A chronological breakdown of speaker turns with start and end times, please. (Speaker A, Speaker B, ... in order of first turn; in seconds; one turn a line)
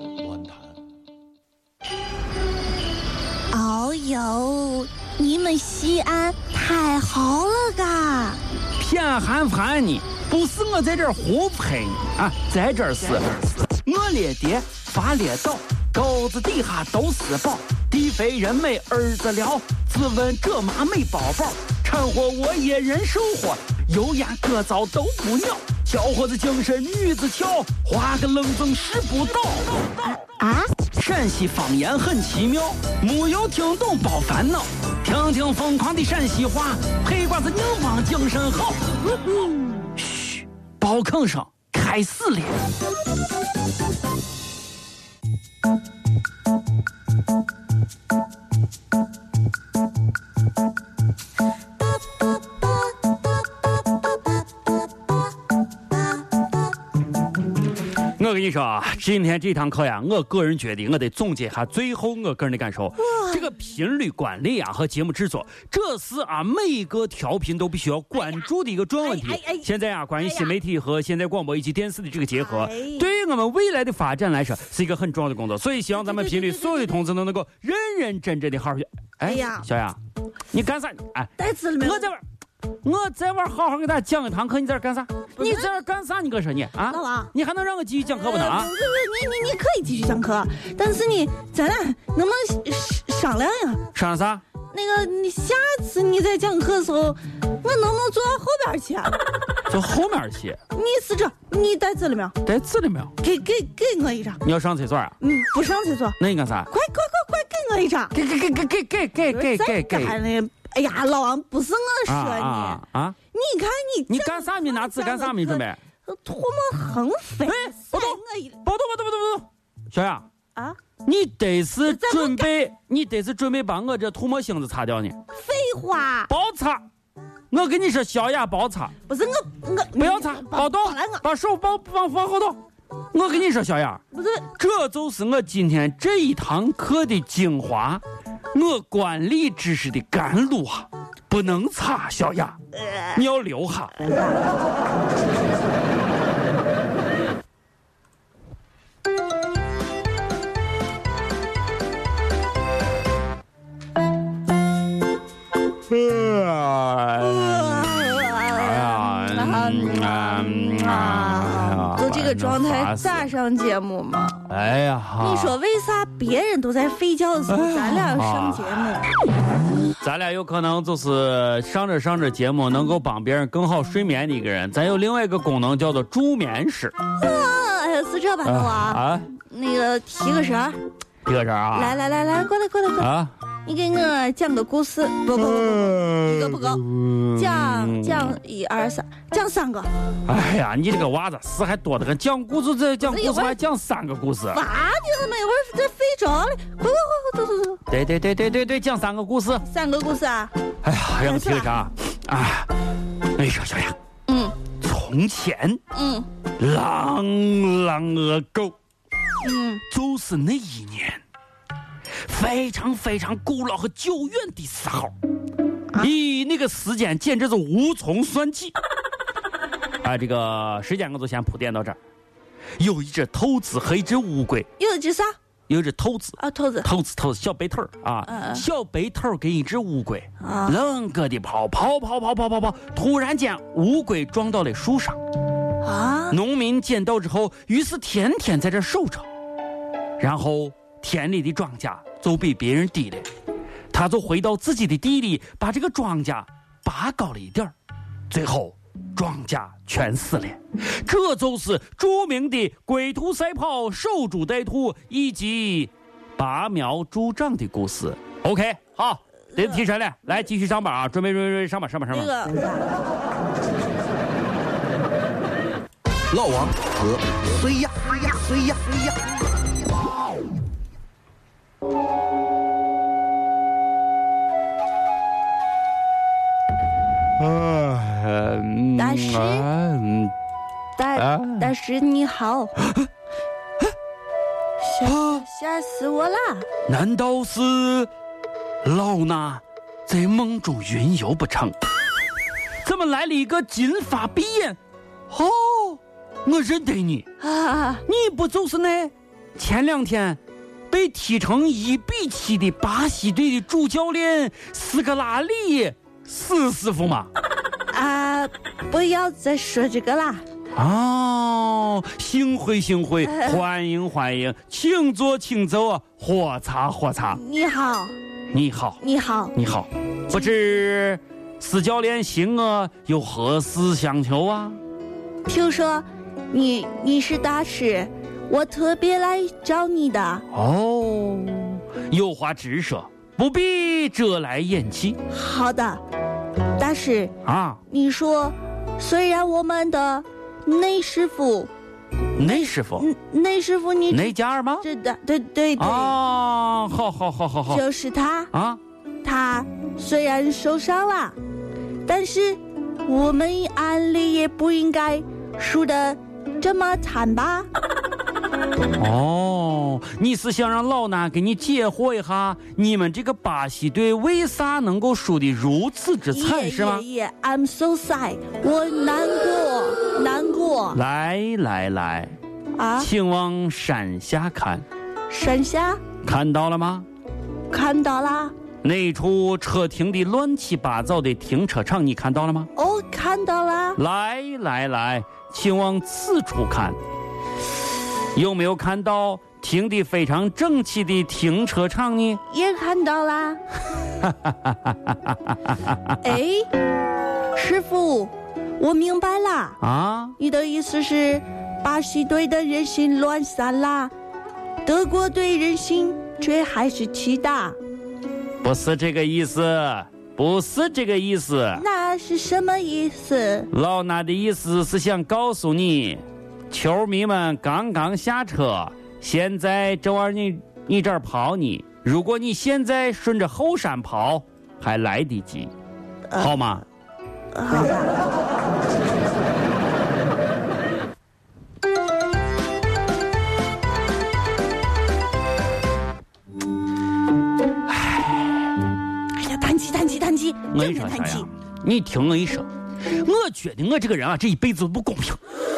Speaker A: 3.5-8.4
Speaker B: 8.8-29.9
Speaker A: 30.4-30.7
Speaker B: 30.9-38.9
Speaker B: 40.0-42.6
Speaker B: 58.2-80.0
Speaker A: 63.0-63.5
Speaker A: 68.2-68.5
Speaker A: 69.0-69.7
Speaker A: 70.2-70.5
Speaker A: 72.3-73.1
Speaker A: 76.0-77.0
Speaker A: 79.2-79.7
Speaker B: 80.5-82.2
Speaker A: 81.4-82.1
Speaker B: 82.8-88.7
Speaker A: 85.4-85.7
Speaker A: 86.9-87.3
Speaker A: 88.1-93.8
Speaker B: 93.9-94.4
Speaker A: 94.7-99.2
Speaker B: 99.7-100.6
Speaker A: 100.7-102.4
Speaker B: 102.4-103.1
Speaker A: 103.2-104.4
Speaker B: 104.4-105.2
Speaker A: 105.2-106.2
Speaker B: 106.2-106.7
Speaker A: 106.7-108.1
Speaker B: 108.1-110.2
Speaker A: 109.3-118.6
Speaker B: 112.1-113.2
Speaker B: 114.1-115.8
Speaker B: 117.5-120.2
Speaker B: 121.0-125.2
Speaker A: 121.8-122.5
Speaker A: 125.3-126.3
Speaker B: 126.3-126.8
Speaker B: 127.5-128.9
Speaker A: 129.0-131.2
Speaker B: 130.0-132.6
Speaker B: 133.1-134.0
Speaker A: 134.1-134.5
Speaker B: 134.5-142.6
Speaker A: 142.7-143.2
Speaker B: 143.1-144.0
Speaker A: 144.0-144.4
Speaker B: 155.9-163.3
Speaker A: 157.2-164.4
Speaker B: 164.5-165.6
Speaker A: 165.2-169.1
Speaker B: 167.5-169.0
Speaker B: 170.0-176.9
Speaker A: 177.2-180.8
Speaker B: 178.4-179.3
Speaker B: 181.2-182.0
Speaker A: 181.7-183.1
Speaker B: 183.0-183.3
Speaker A: 183.6-189.9
Speaker B: 185.4-188.4
Speaker B: 190.2-194.6
Speaker A: 193.0-193.6
Speaker A: 194.5-197.8
Speaker B: 197.9-199.6
Speaker A: 199.6-200.5
Speaker B: 200.8-202.7
Speaker A: 201.2-201.9
Speaker B: 203.3-203.9
Speaker A: 204.3-204.6
Speaker B: 204.8-205.8
Speaker A: 205.9-206.3
Speaker B: 206.6-208.8
Speaker A: 209.4-209.8
Speaker B: 209.9-211.2
Speaker B: 212.2-215.1
Speaker B: 216.0-218.7
Speaker B: 220.0-222.0
Speaker B: 222.8-224.7
Speaker A: 224.8-225.3
Speaker B: 225.7-235.2
Speaker A: 226.4-226.9
Speaker A: 228.3-228.6
Speaker A: 230.4-230.8
Speaker A: 235.8-236.4
Speaker B: 236.3-239.3
Speaker B: 240.2-243.3
Speaker B: 243.9-247.7
Speaker B: 248.3-262.5
Speaker A: 262.1-262.9
Speaker C: 266.3-269.0
Speaker B: 277.4-280.3
Speaker A: 278.9-279.7
Speaker A: 281.0-282.7
Speaker B: 281.1-281.7
Speaker A: 284.8-286.7
Speaker B: 285.0-285.4
Speaker B: 286.9-288.1
Speaker B: 288.8-291.8
Speaker B: 292.8-294.8
Speaker B: 295.3-297.2
Speaker A: 297.4-298.0
Speaker B: 298.1-307.3
Speaker A: 307.9-310.4
Speaker B: 310.7-317.4
Speaker A: 313.2-313.6
Speaker A: 317.3-318.1
Speaker B: 318.5-319.0
Speaker A: 319.0-319.5
Speaker B: 319.5-324.8
Speaker A: 325.5-330.4
Speaker B: 330.5-335.2
Speaker A: 335.3-336.0
Speaker A: 336.8-337.3
Speaker B: 337.4-337.8
Speaker A: 337.9-341.7
Speaker B: 342.4-343.1
Speaker A: 342.4-346.1
Speaker B: 344.1-344.8
Speaker B: 345.8-347.8
Speaker A: 347.7-348.5
Speaker B: 348.5-348.8
Speaker A: 349.2-351.4
Speaker A: 352.0-357.7
Speaker B: 359.0-367.0
Speaker A: 366.3-371.0
Speaker B: 370.9-372.4
Speaker A: 372.7-373.1
Speaker B: 373.0-374.8
Speaker A: 375.3-376.0
Speaker B: 376.2-377.1
Speaker A: 377.7-378.5
Speaker B: 378.8-382.7
Speaker A: 382.8-384.0
Speaker B: 384.0-387.0
Speaker B: 388.3-392.4
Speaker A: 392.4-393.6
Speaker B: 394.2-396.1
Speaker A: 396.2-396.7
Speaker A: 397.5-399.8
Speaker B: 399.8-400.3
Speaker A: 400.4-404.1
Speaker A: 404.8-407.8
Speaker B: 408.6-411.8
Speaker A: 411.7-413.7
Speaker B: 413.7-425.7
Speaker A: 426.3-426.8
Speaker B: 426.4-426.8
Speaker A: 427.5-428.2
Speaker B: 437.9-438.4
Speaker A: 439.3-441.5
Speaker B: 440.7-445.4